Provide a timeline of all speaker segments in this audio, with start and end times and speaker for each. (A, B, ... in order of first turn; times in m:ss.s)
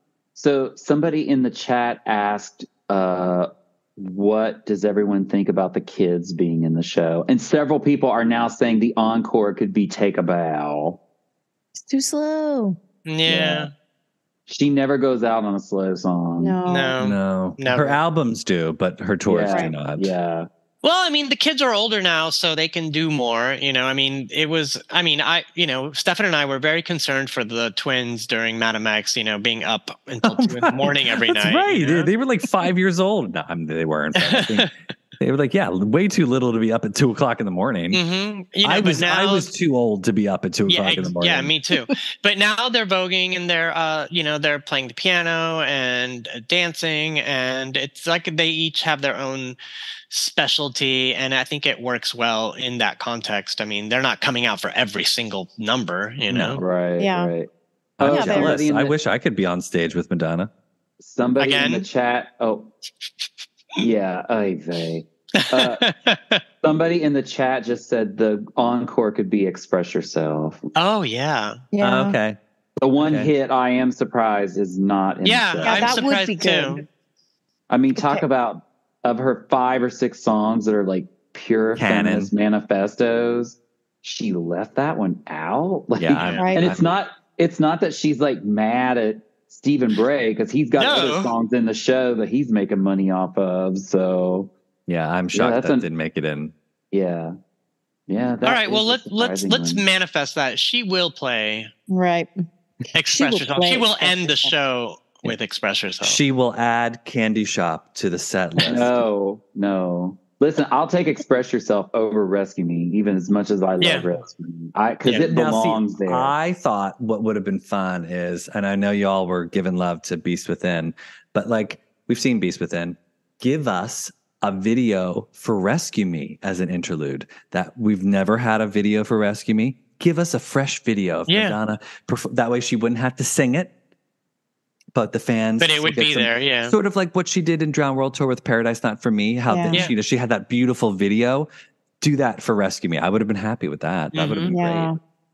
0:00.3-0:11.0 A
0:11.8-0:12.8 B
0:13.0-0:13.7 C
0:13.3-0:13.7 A
0:14.5-0:16.6 A
0:16.4-0:17.0 B
0:16.6-0:18.0 C
0:17.0-0:20.1 D
0:19.2-0:20.5 A
0:19.5-0:19.7 B
0:20.8-0:32.1 C
0:30.2-0:38.0 D
0:34.2-0:34.7 C
0:37.9-0:39.5 C
0:38.6-0:41.5 D
0:40.7-0:49.6 C
0:50.1-0:56.6 C
0:56.3-0:56.6 D
0:56.6-0:57.5 A
0:57.0-0:57.3 B
0:58.0-1:00.5 D
0:58.0-0:58.9 A
0:58.1-0:58.6 B
1:01.0-1:02.7 A
1:01.4-1:01.9 C
1:03.8-1:05.8 A
1:05.4-1:06.4 C
1:06.6-1:10.6 A
1:10.7-1:11.6 C
1:11.7-1:12.2 B
1:11.8-1:12.4 D
1:12.8-1:16.0 A
1:13.0-1:13.3 D
1:15.2-1:16.8 C
1:15.6-1:16.8 B
1:17.7-1:34.5 A
1:18.0-1:18.2 B
1:21.8-1:22.3 D
1:26.0-1:26.8 D
1:26.2-1:26.5 C
1:26.4-1:26.7 B
1:30.8-1:31.3 C
1:34.9-1:36.5 D
1:35.3-1:35.8 A
1:36.9-1:37.3 A
1:38.1-1:39.9 A
1:38.4-1:41.7 C
1:41.9-1:42.3 B
1:42.9-1:46.2 C
1:43.1-1:44.5 B
1:46.0-1:49.0 D
1:48.6-1:56.3 A
1:53.8-1:54.1 C
1:55.3-2:13.7 D
2:11.3-2:11.6 C
2:14.9-2:21.5 D
2:15.6-2:16.8 C
2:19.5-2:19.8 B
2:22.0-2:24.9 D
2:24.1-2:24.5 C
2:24.5-2:25.0 B